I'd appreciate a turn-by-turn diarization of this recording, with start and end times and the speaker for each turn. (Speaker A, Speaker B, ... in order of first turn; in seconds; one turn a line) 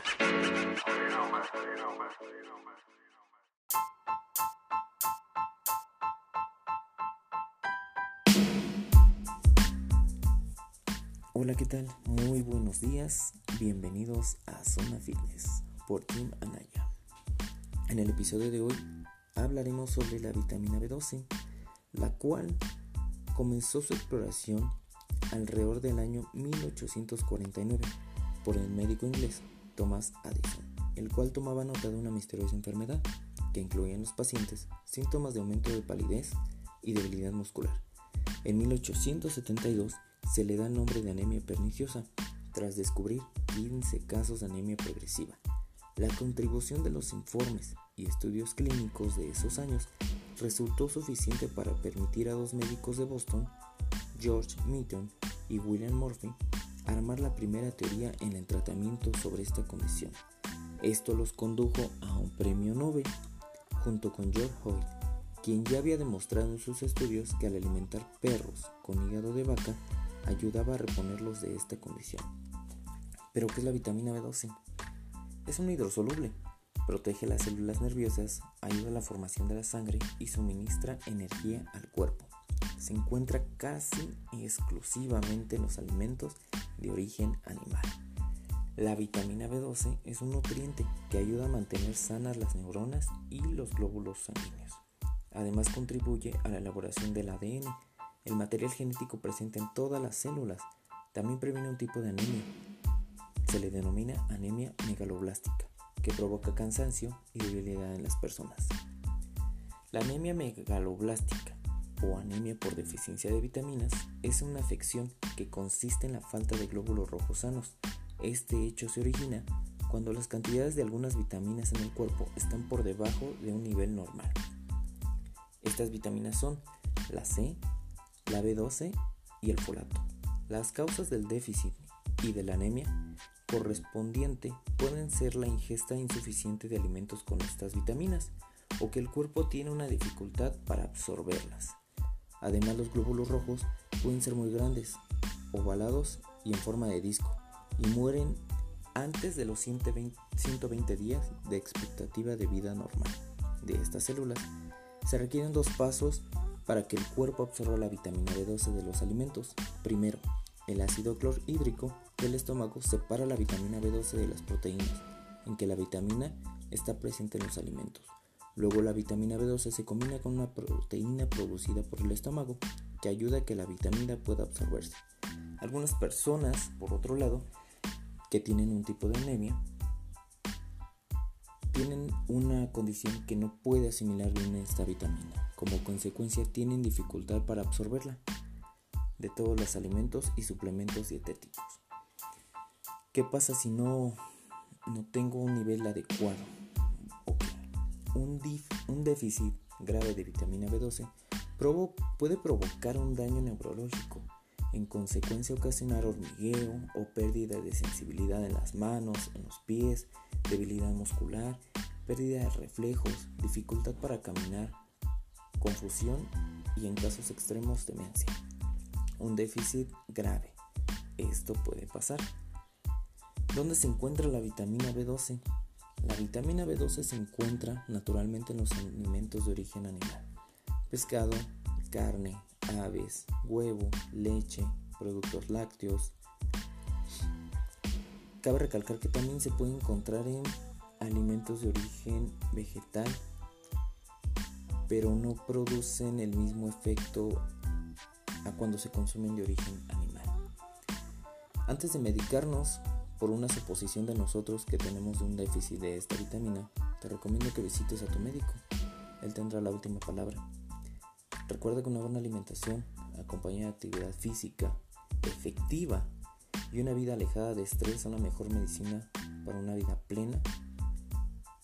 Speaker A: 11.3-16.9
Speaker A: 17.9-21.3
Speaker A: 21.9-22.6
Speaker A: 23.3-24.8
Speaker A: 25.3-37.8
Speaker A: 38.4-45.4
Speaker A: 46.0-53.5
Speaker A: 54.1-60.2
Speaker A: 60.8-63.1
Speaker A: 63.8-72.3
Speaker A: 73.3-74.6
Speaker A: 75.5-88.0
Speaker A: 88.8-102.5
Speaker A: 103.5-108.8
Speaker A: 109.9-124.4
Speaker A: 125.6-127.6
Speaker A: 128.3-141.8
Speaker A: 142.4-148.4
Speaker A: 148.9-154.5
Speaker A: 155.0-175.0
Speaker A: 175.6-177.5
Speaker A: 178.3-179.6
Speaker A: 181.7-188.2
Speaker A: 189.2-191.8
Speaker A: 193.1-194.2
Speaker A: 194.9-196.5
Speaker A: 197.2-214.8
Speaker A: 215.6-218.4
Speaker A: 219.2-220.6
Speaker A: 221.2-222.3
Speaker A: 223.5-225.4
Speaker A: 226.0-230.3
Speaker A: 230.9-236.2
Speaker A: 238.4-243.2
Speaker A: 244.9-247.5
Speaker A: 248.4-250.3
Speaker A: 251.7-258.6
Speaker A: 259.2-260.4
Speaker A: 261.5-266.1
Speaker A: 266.7-270.5